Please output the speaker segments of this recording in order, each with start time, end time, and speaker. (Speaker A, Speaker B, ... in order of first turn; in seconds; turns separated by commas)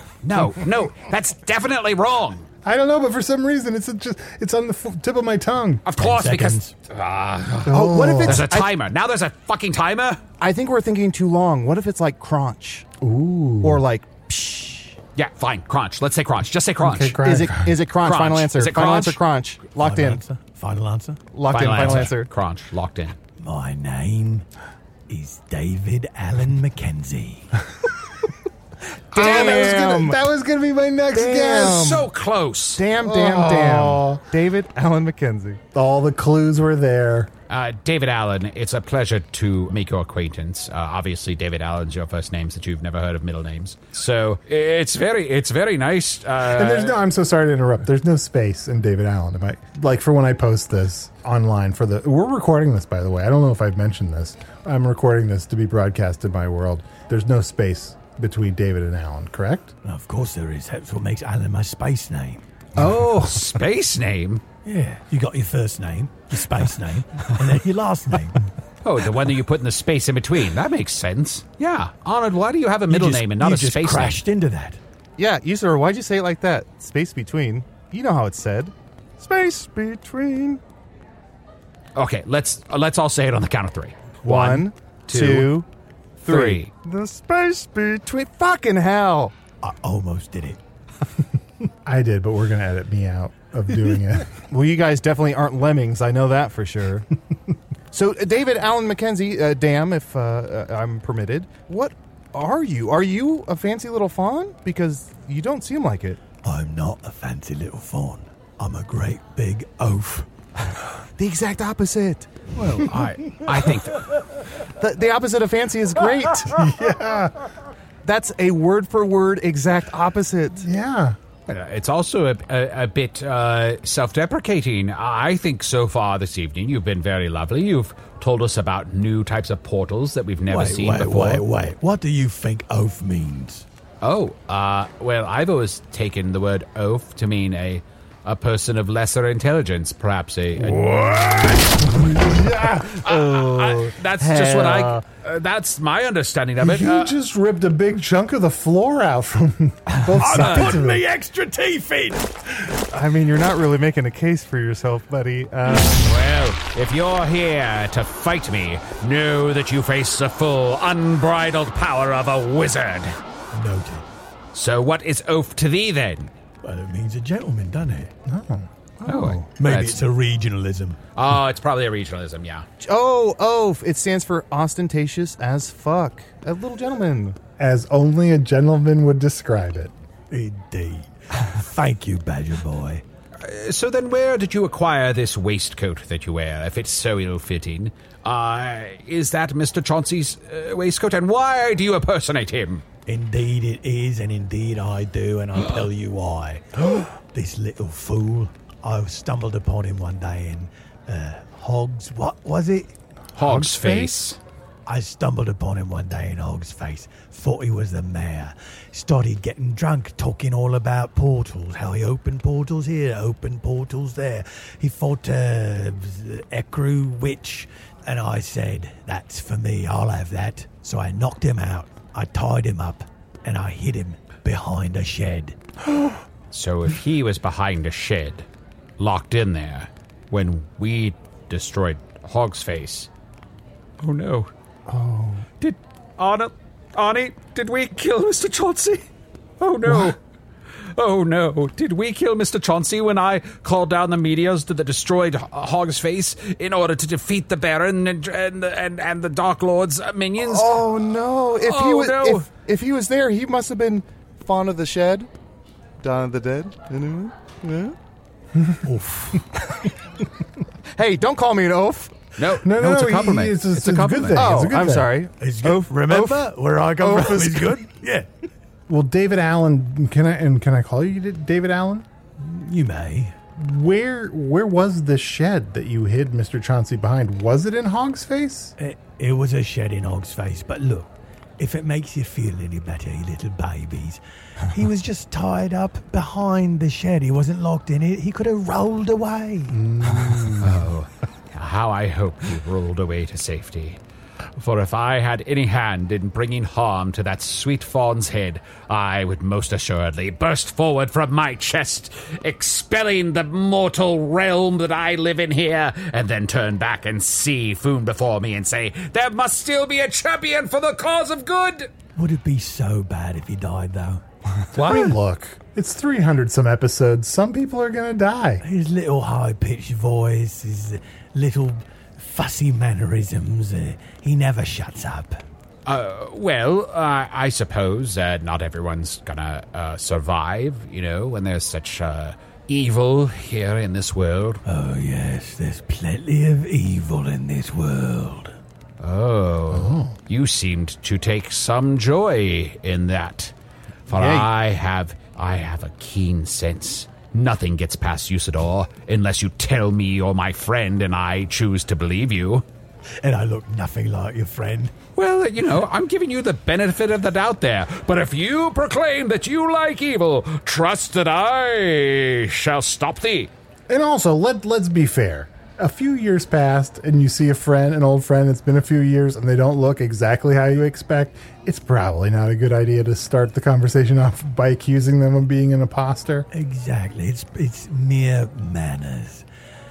Speaker A: 0.2-2.5, Speaker B: 2.6-5.8, Speaker A: 5.8-10.2, Speaker C: 6.0-6.7, Speaker B: 7.6-8.5, Speaker D: 7.7-8.7, Speaker D: 10.4-12.8, Speaker B: 13.0-13.8, Speaker D: 13.6-14.9, Speaker A: 15.2-17.2, Speaker B: 16.8-17.7, Speaker D: 17.2-20.2, Speaker A: 18.0-19.2, Speaker C: 19.8-21.2, Speaker D: 21.3-22.3, Speaker A: 21.5-23.2, Speaker C: 21.8-22.1, Speaker C: 23.4-24.4, Speaker C: 25.1-27.5, Speaker D: 29.1-30.2, Speaker B: 29.1-31.9, Speaker A: 29.2-29.7, Speaker D: 31.1-32.1, Speaker A: 31.6-32.8, Speaker D: 32.8-35.6, Speaker B: 33.0-34.2, Speaker B: 35.7-37.3, Speaker A: 37.5-47.0, Speaker B: 46.4-59.7, Speaker C: 59.8-62.4, Speaker A: 62.8-64.4, Speaker C: 64.6-68.4, Speaker A: 68.8-74.2, Speaker C: 72.9-74.8, Speaker D: 75.2-80.6, Speaker A: 82.0-85.6, Speaker D: 84.2-85.7, Speaker A: 86.2-86.7, Speaker D: 86.2-89.4, Speaker C: 89.6-90.6, Speaker B: 91.8-94.3, Speaker D: 94.5-97.1, Speaker D: 97.9-106.2, Speaker C: 106.4-110.3, Speaker D: 111.2-112.3, Speaker A: 112.6-114.1, Speaker D: 114.8-116.6, Speaker B: 116.5-117.5, Speaker D: 118.0-120.7, Speaker B: 120.6-121.2, Speaker A: 121.5-131.4, Speaker C: 130.5-133.6, Speaker A: 134.0-142.0, Speaker B: 142.0-143.0, Speaker A: 142.9-147.1, Speaker D: 143.0-145.0, Speaker B: 146.6-151.0, Speaker C: 149.9-152.3, Speaker A: 150.2-150.8, Speaker D: 152.9-156.2, Speaker A: 156.0-163.2, Speaker C: 163.5-164.0, Speaker A: 164.5-166.3, Speaker C: 166.6-168.1, Speaker B: 168.3-168.7, Speaker D: 169.0-169.4, Speaker A: 169.1-170.0, Speaker C: 169.6-171.0, Speaker A: 171.2-172.7, Speaker D: 172.8-177.4, Speaker B: 177.6-179.9, Speaker C: 180.3-183.0, Speaker A: 183.4-192.8, Speaker C: 193.1-202.9, Speaker A: 203.3-204.4, Speaker B: 203.4-204.1, Speaker C: 204.8-225.6, Speaker A: 226.5-228.4, Speaker A: 229.0-233.1, Speaker A: 234.0-234.5, Speaker D: 234.9-235.4, Speaker A: 235.6-239.0, Speaker A: 239.6-240.2, Speaker A: 240.9-250.8, Speaker D: 250.4-255.3, Speaker A: 251.6-252.5, Speaker D: 256.0-257.9, Speaker C: 258.8-259.8, Speaker D: 260.9-262.2, Speaker A: 262.4-264.5, Speaker B: 262.6-265.2, Speaker D: 264.3-267.9, Speaker C: 265.4-268.3, Speaker B: 268.9-272.1, Speaker C: 272.4-273.3, Speaker B: 273.6-278.7, Speaker C: 278.8-290.6, Speaker B: 289.7-290.8, Speaker A: 290.6-294.0, Speaker A: 294.6-311.9, Speaker C: 312.1-314.2, Speaker A: 314.7-315.1, Speaker B: 314.8-318.6, Speaker C: 318.6-325.4, Speaker A: 325.9-334.6, Speaker C: 334.6-338.6, Speaker A: 339.0-343.5, Speaker B: 339.7-340.1, Speaker A: 344.1-352.6, Speaker D: 344.1-344.5, Speaker C: 353.2-355.0, Speaker A: 355.1-363.5, Speaker B: 363.9-376.5, Speaker C: 376.5-379.4